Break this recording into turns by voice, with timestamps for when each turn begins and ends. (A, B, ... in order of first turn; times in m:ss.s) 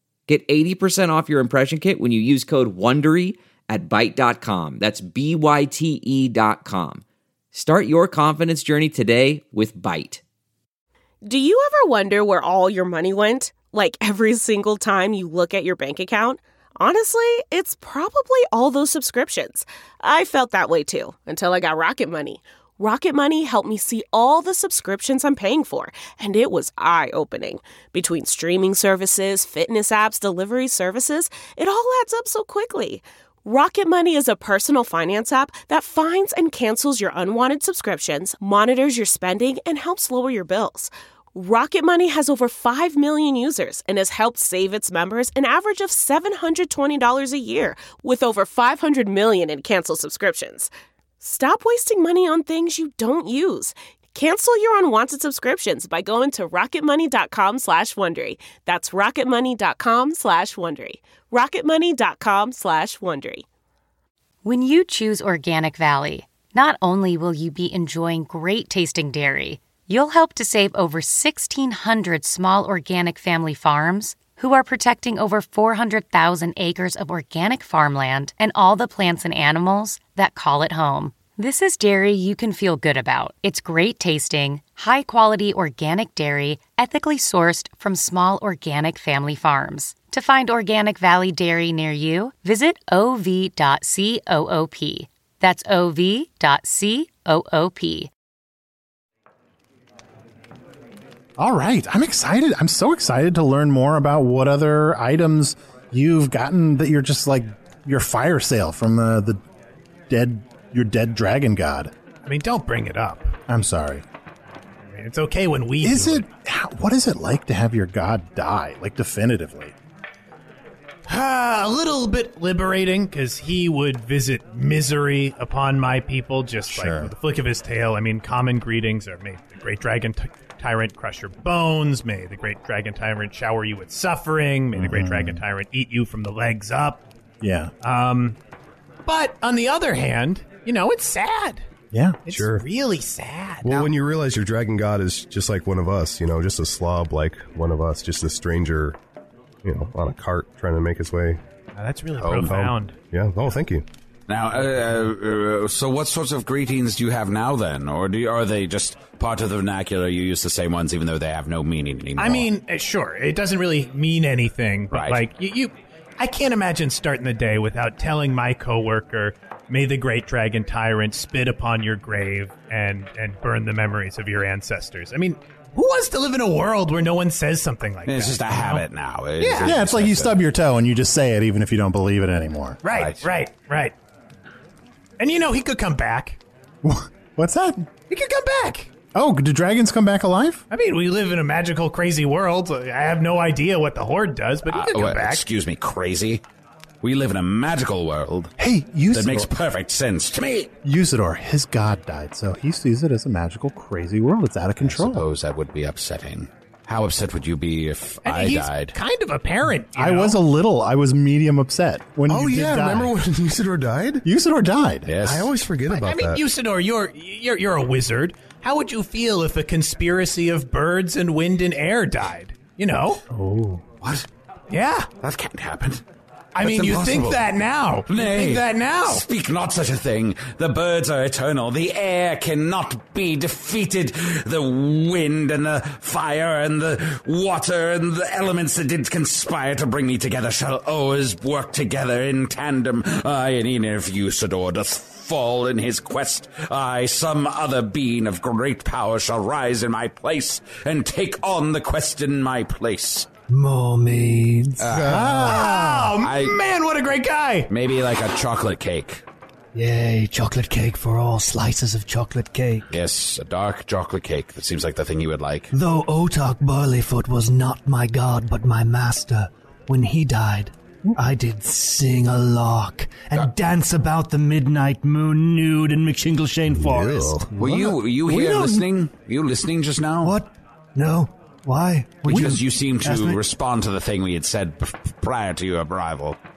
0:00.3-0:10.2 A
0:11.2-0:50.7 B
0:51.2-1:03.4 B
1:04.4-1:38.1 C
1:41.4-1:49.4 D
1:50.1-1:51.9 D
1:52.2-1:53.3 E
1:53.5-1:54.0 D
1:54.9-1:56.2 E
1:55.8-1:59.7 D
2:01.1-2:17.0 E
2:06.7-2:07.1 D
2:14.7-2:15.4 D
2:17.4-2:17.7 D
2:17.8-2:18.4 E
2:19.0-2:21.6 E
2:21.9-2:22.2 D
2:22.2-2:23.9 E
2:22.3-2:22.6 F
2:23.6-2:29.0 F
2:29.6-2:31.4 F
2:31.7-2:32.9 E
2:32.2-2:32.6 G
2:32.3-2:33.8 F
2:34.3-2:42.5 G
2:42.2-2:58.8 E
2:44.9-2:45.2 G
2:58.1-3:00.4 G
2:59.4-2:59.7 E
2:59.6-3:02.8 D
3:02.8-3:03.9 E
3:02.8-3:03.2 G
3:05.2-3:06.4 E
3:06.8-3:07.9 D
3:08.1-3:08.9 E
3:09.1-3:10.6 D
3:10.7-3:15.4 E
3:14.7-3:16.4 G
3:17.0-3:18.5 G
3:18.6-3:19.5 D
3:19.1-3:20.7 G
3:20.8-3:25.2 D
3:24.8-3:28.9 G
3:28.2-3:30.4 E
3:29.9-3:33.1 D
3:32.3-3:34.2 F
3:34.2-3:35.1 D
3:35.0-3:35.5 G
3:35.2-3:36.4 F
3:35.9-3:43.2 E
3:43.3-3:43.8 D
3:44.7-3:45.1 E
3:45.2-3:46.0 G
3:46.5-3:49.2 E
3:46.6-3:47.4 G
3:48.1-4:13.3 G
4:13.5-4:15.0 H
4:14.8-4:15.5 G
4:14.9-4:15.4 F
4:15.0-4:16.2 D
4:15.4-4:17.7 E
4:16.2-4:16.6 G
4:17.7-4:19.2 G
4:19.7-4:22.8 H
4:22.9-4:25.7 G
4:25.7-4:37.5 H
4:36.7-4:37.5 F
4:37.6-4:38.8 D
4:37.6-4:40.4 G
4:40.2-4:43.4 H
4:42.2-4:46.4 G